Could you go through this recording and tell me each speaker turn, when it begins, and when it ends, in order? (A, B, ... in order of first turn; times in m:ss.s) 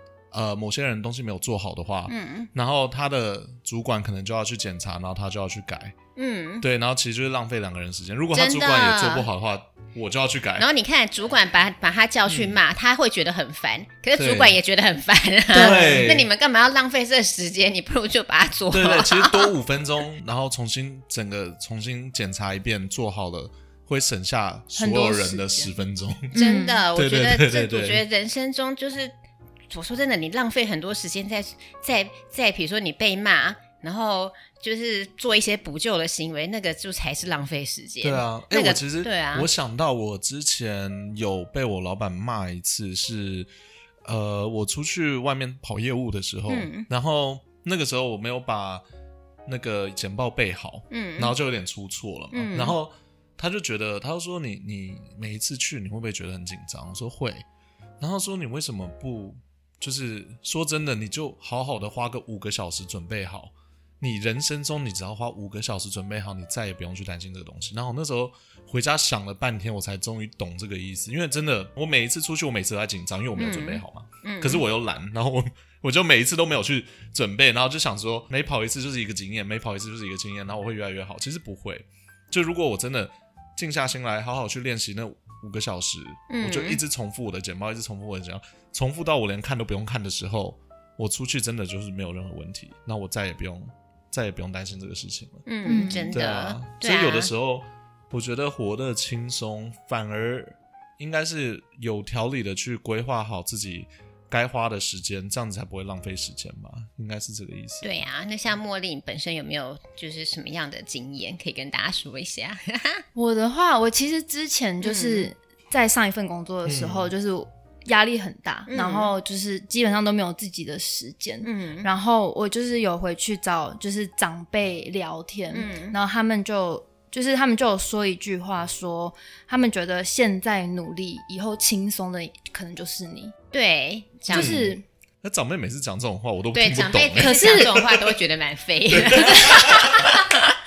0:00.3-0:06.0 A
0:02.1-0:02.5 B
0:06.2-0:06.7 B
0:06.6-0:10.7 A
0:08.3-0:09.3 B
0:10.6-0:19.5 B
0:12.3-0:12.6 A
0:14.2-0:14.6 A
0:15.5-0:16.1 C
0:15.5-0:16.3 A
0:18.7-0:26.3 A
0:24.7-0:25.7 C
0:26.3-0:26.8 C
0:26.3-0:29.1 B
0:26.9-0:28.0 A
0:29.7-0:39.5 B
0:38.0-0:43.5 A
0:44.0-0:48.8 A
0:46.5-0:46.9 B
0:49.4-0:57.4 A
0:50.9-0:51.4 B
0:52.3-0:52.8 B
0:58.0-1:35.4 A
1:13.4-1:14.6 B
1:26.3-1:26.8 B
1:35.5-1:37.3 B
1:35.6-1:36.1 C
1:36.1-1:47.9 A
1:47.8-1:53.0 B
1:53.1-2:13.3 C
1:54.8-1:55.3 B
1:56.6-1:57.1 A
1:58.7-1:59.1 B
2:01.4-2:01.9 B
2:05.5-2:06.0 B
2:13.5-2:14.7 B
2:14.3-2:14.8 C
2:14.3-2:17.9 A
2:16.5-2:20.2 B
2:17.2-2:17.8 C
2:18.9-2:20.1 A
2:19.2-2:19.8 C